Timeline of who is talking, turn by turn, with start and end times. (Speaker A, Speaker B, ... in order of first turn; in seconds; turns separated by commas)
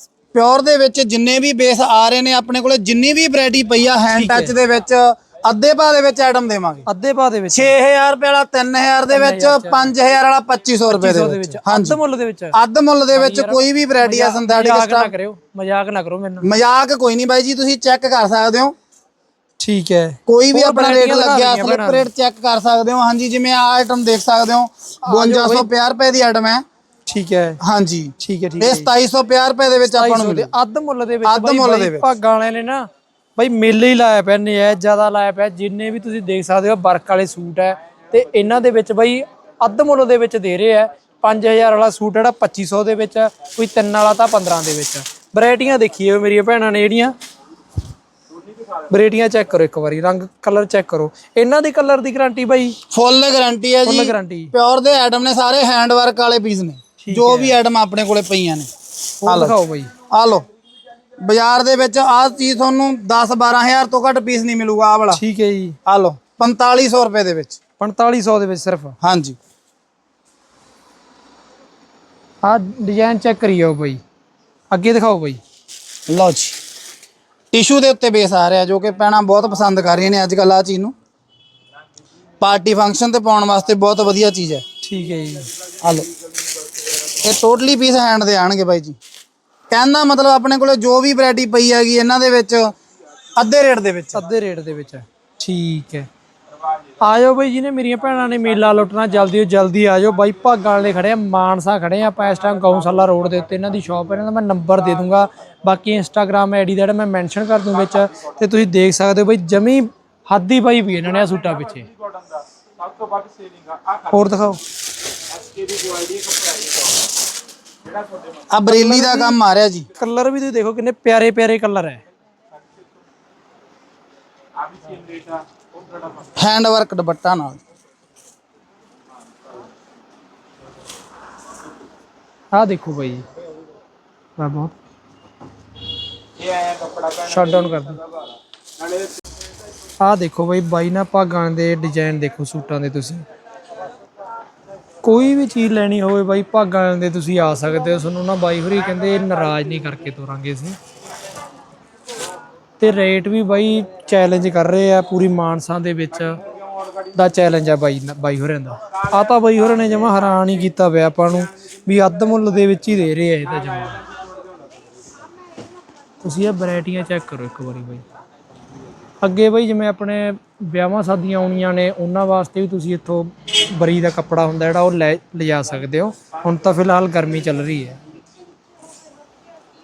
Speaker A: 0.3-6.8, Speaker B: 4.1-4.5, Speaker B: 6.9-7.7, Speaker A: 7.5-12.0, Speaker B: 9.1-9.9, Speaker B: 10.9-12.6, Speaker A: 12.5-15.1, Speaker B: 13.1-16.5, Speaker A: 16.4-18.8, Speaker B: 19.6-22.1, Speaker A: 20.3-26.6, Speaker B: 25.0-25.7, Speaker B: 27.1-27.6, Speaker A: 27.6-30.5, Speaker B: 28.2-28.9, Speaker B: 29.8-47.1, Speaker A: 31.2-32.1, Speaker B: 48.9-52.8, Speaker A: 52.9-58.7, Speaker B: 53.8-54.5, Speaker B: 57.0-57.6, Speaker A: 59.2-59.5, Speaker B: 59.2-59.9, Speaker A: 60.1-60.4, Speaker A: 61.2-65.2, Speaker B: 65.1-65.8, Speaker A: 65.8-67.6, Speaker B: 67.8-68.9, Speaker A: 69.0-69.4, Speaker B: 72.4-74.0, Speaker B: 74.7-75.4, Speaker A: 76.1-76.6, Speaker A: 77.5-80.9, Speaker A: 82.4-84.6, Speaker B: 84.8-85.5, Speaker A: 85.8-86.1, Speaker A: 87.1-89.0, Speaker A: 89.7-92.7, Speaker A: 93.4-94.3, Speaker B: 94.1-96.1, Speaker B: 97.0-111.9, Speaker B: 114.0-114.6, Speaker A: 118.5-119.9, Speaker B: 118.7-119.4, Speaker B: 120.0-122.0, Speaker A: 126.3-127.6, Speaker B: 132.5-133.2, Speaker B: 134.4-134.7, Speaker B: 137.1-138.0, Speaker B: 140.0-143.2, Speaker B: 145.0-150.8, Speaker B: 152.8-156.4, Speaker B: 157.1-164.1, Speaker B: 166.2-168.0, Speaker B: 169.2-178.0